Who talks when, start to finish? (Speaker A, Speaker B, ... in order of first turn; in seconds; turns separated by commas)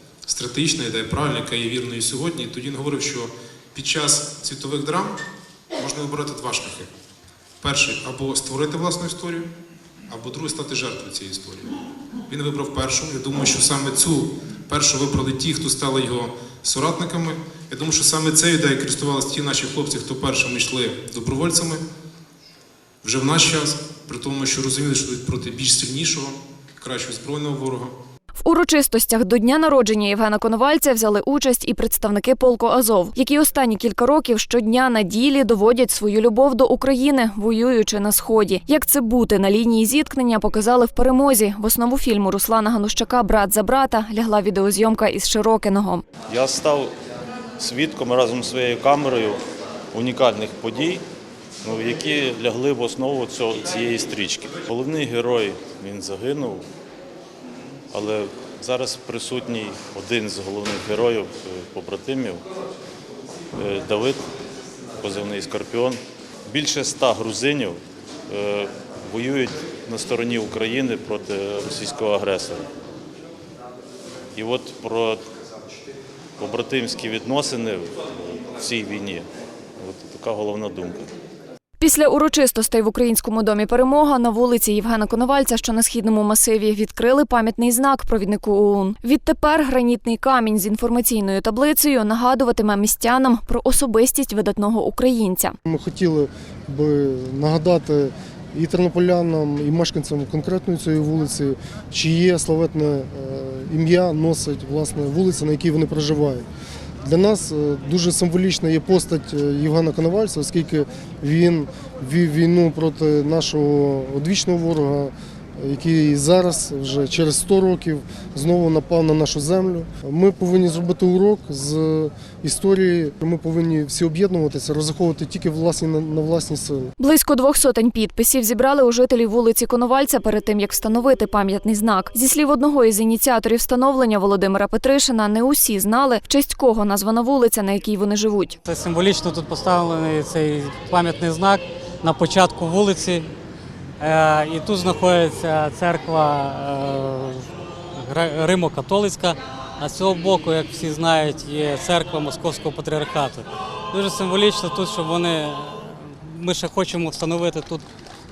Speaker A: 0.3-5.2, Speaker A: 5.8-6.9, Speaker A: 7.6-9.5, Speaker A: 10.1-11.7, Speaker A: 12.3-21.8, Speaker A: 23.0-27.9, Speaker B: 28.4-46.0, Speaker C: 46.3-46.9, Speaker C: 47.6-49.4, Speaker C: 49.9-51.0, Speaker C: 51.6-56.7, Speaker C: 57.9-62.5, Speaker C: 63.5-64.3, Speaker C: 65.0-72.7, Speaker C: 74.3-75.2, Speaker C: 76.4-79.3, Speaker C: 79.8-81.1, Speaker B: 81.8-95.6, Speaker D: 95.7-106.5, Speaker D: 107.0-126.9, Speaker B: 127.0-138.6, Speaker E: 138.7-143.3, Speaker E: 144.0-157.9